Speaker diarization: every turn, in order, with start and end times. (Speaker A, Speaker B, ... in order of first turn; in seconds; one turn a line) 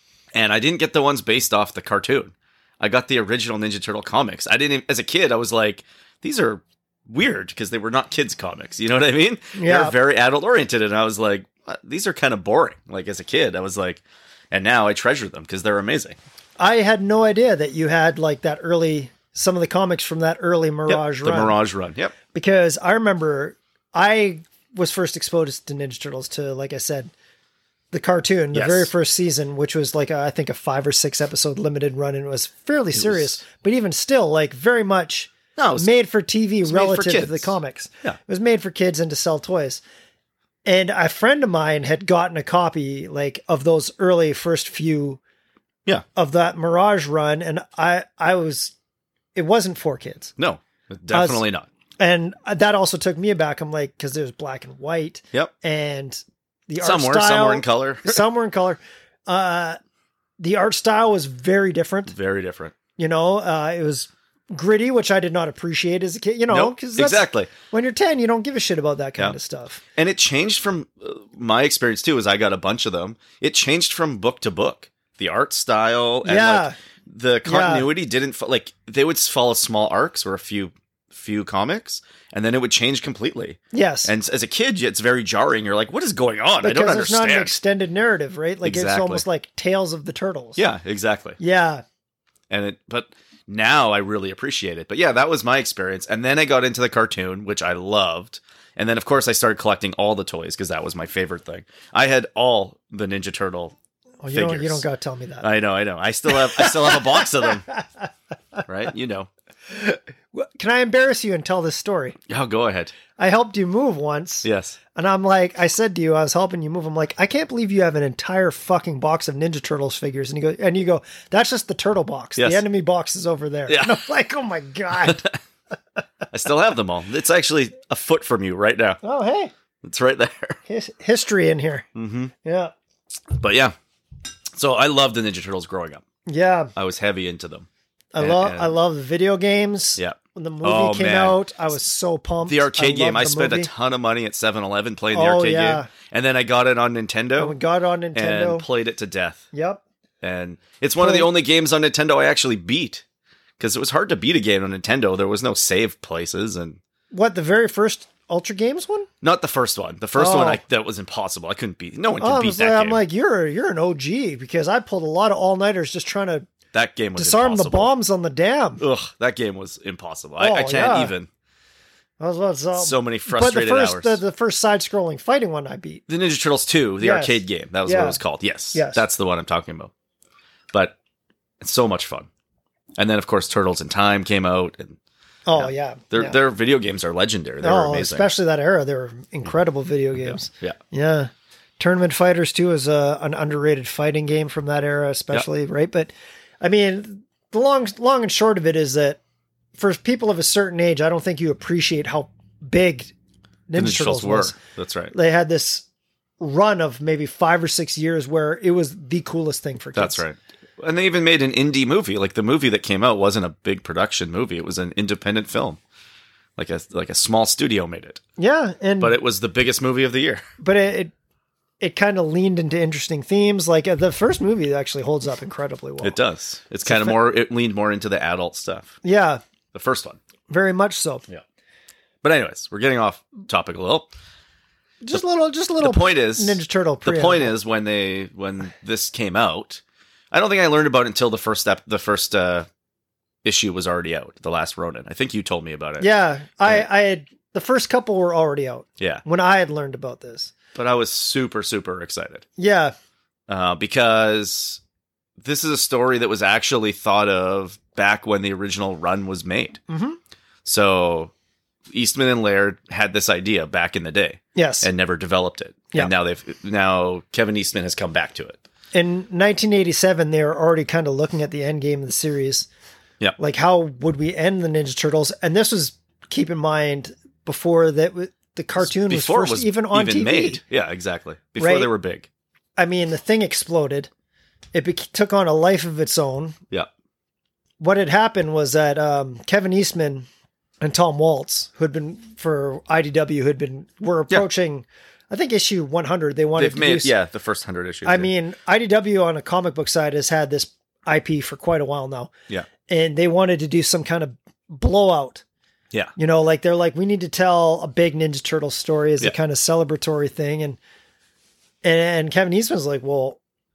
Speaker A: 0.3-16.2
Speaker B: 9.6-9.9
Speaker B: 16.6-21.6
Speaker A: 20.9-22.1
Speaker B: 22.3-27.1
Speaker B: 27.9-39.8
Speaker A: 28.5-28.9
Speaker A: 32.9-33.4
Speaker A: 35.5-35.9
Speaker A: 36.6-38.2
Speaker B: 40.6-45.2
Speaker B: 46.1-48.7
Speaker B: 49.3-50.4
Speaker A: 50.4-51.7
Speaker B: 51.1-51.4
Speaker B: 52.0-59.8
Speaker A: 56.8-58.2
Speaker B: 60.4-62.1
Speaker A: 62.1-62.8
Speaker B: 63.0-69.8
Speaker A: 66.5-67.5
Speaker A: 69.9-87.5
Speaker B: 76.2-76.8
Speaker B: 77.5-77.9
Speaker B: 83.7-84.1
Speaker B: 86.6-90.6
Speaker A: 88.6-89.2
Speaker A: 90.6-91.4
Speaker B: 91.4-91.8
Speaker A: 92.5-103.7
Speaker B: 104.2-105.5
Speaker A: 104.3-104.8
Speaker A: 105.4-107.6
Speaker B: 106.3-108.1
Speaker A: 108.7-109.3
Speaker B: 109.7-112.2
Speaker A: 112.3-112.9
Speaker B: 113.2-125.3
Speaker A: 114.4-114.8
Speaker A: 122.4-122.6
Speaker A: 123.7-124.0
Speaker A: 125.0-125.3
Speaker A: 126.3-129.0
Speaker B: 129.0-129.5
Speaker A: 129.8-130.6
Speaker B: 130.7-131.8
Speaker A: 131.9-132.3
Speaker B: 132.4-132.7
Speaker A: 133.3-133.7
Speaker A: 134.5-136.0
Speaker B: 136.2-136.7
Speaker A: 136.8-137.7
Speaker B: 138.1-143.7
Speaker A: 138.2-138.7
Speaker A: 140.0-141.4
Speaker A: 142.5-147.6
Speaker B: 145.1-145.9
Speaker B: 147.4-148.7
Speaker A: 148.1-149.4
Speaker B: 149.5-149.8
Speaker A: 150.2-153.0
Speaker B: 151.0-151.3
Speaker A: 153.6-156.8
Speaker B: 157.1-159.1
Speaker A: 159.2-163.0
Speaker B: 160.2-160.6
Speaker B: 162.2-166.4
Speaker A: 166.7-167.9
Speaker B: 167.2-168.8
Speaker A: 168.8-171.3
Speaker B: 170.4-171.1
Speaker B: 172.2-176.0
Speaker A: 172.8-174.2
Speaker A: 176.1-179.9
Speaker B: 177.0-178.2
Speaker B: 178.7-179.0
Speaker A: 181.6-182.3
Speaker A: 183.0-185.0
Speaker B: 185.4-186.3
Speaker A: 185.5-188.3
Speaker B: 187.6-199.2
Speaker A: 190.2-190.8
Speaker B: 199.8-203.1
Speaker B: 203.7-204.6
Speaker A: 203.8-205.1
Speaker B: 205.1-205.8
Speaker B: 206.4-210.2
Speaker A: 209.9-215.8
Speaker A: 216.6-218.2
Speaker B: 218.4-219.2
Speaker A: 219.0-220.4
Speaker B: 220.6-221.1
Speaker B: 221.8-226.2
Speaker A: 226.0-229.0
Speaker B: 226.8-227.2
Speaker B: 229.0-229.4
Speaker A: 229.7-230.2
Speaker B: 230.5-231.2
Speaker A: 232.2-234.1
Speaker B: 235.0-237.5
Speaker A: 235.8-242.7
Speaker A: 243.4-246.1
Speaker B: 246.0-250.5
Speaker A: 250.7-252.4
Speaker B: 252.6-252.9
Speaker A: 253.5-254.8
Speaker A: 255.4-259.8
Speaker B: 259.9-260.2
Speaker A: 260.6-261.3
Speaker A: 261.9-268.6
Speaker B: 264.5-264.9
Speaker B: 268.9-272.7
Speaker B: 273.4-280.6
Speaker A: 278.8-282.3
Speaker B: 281.6-281.9
Speaker B: 282.8-284.1
Speaker B: 284.7-286.6
Speaker B: 287.8-290.3
Speaker B: 290.8-297.1
Speaker A: 296.6-298.3
Speaker B: 298.0-302.3
Speaker B: 302.9-305.4
Speaker B: 306.2-310.8
Speaker B: 311.8-313.4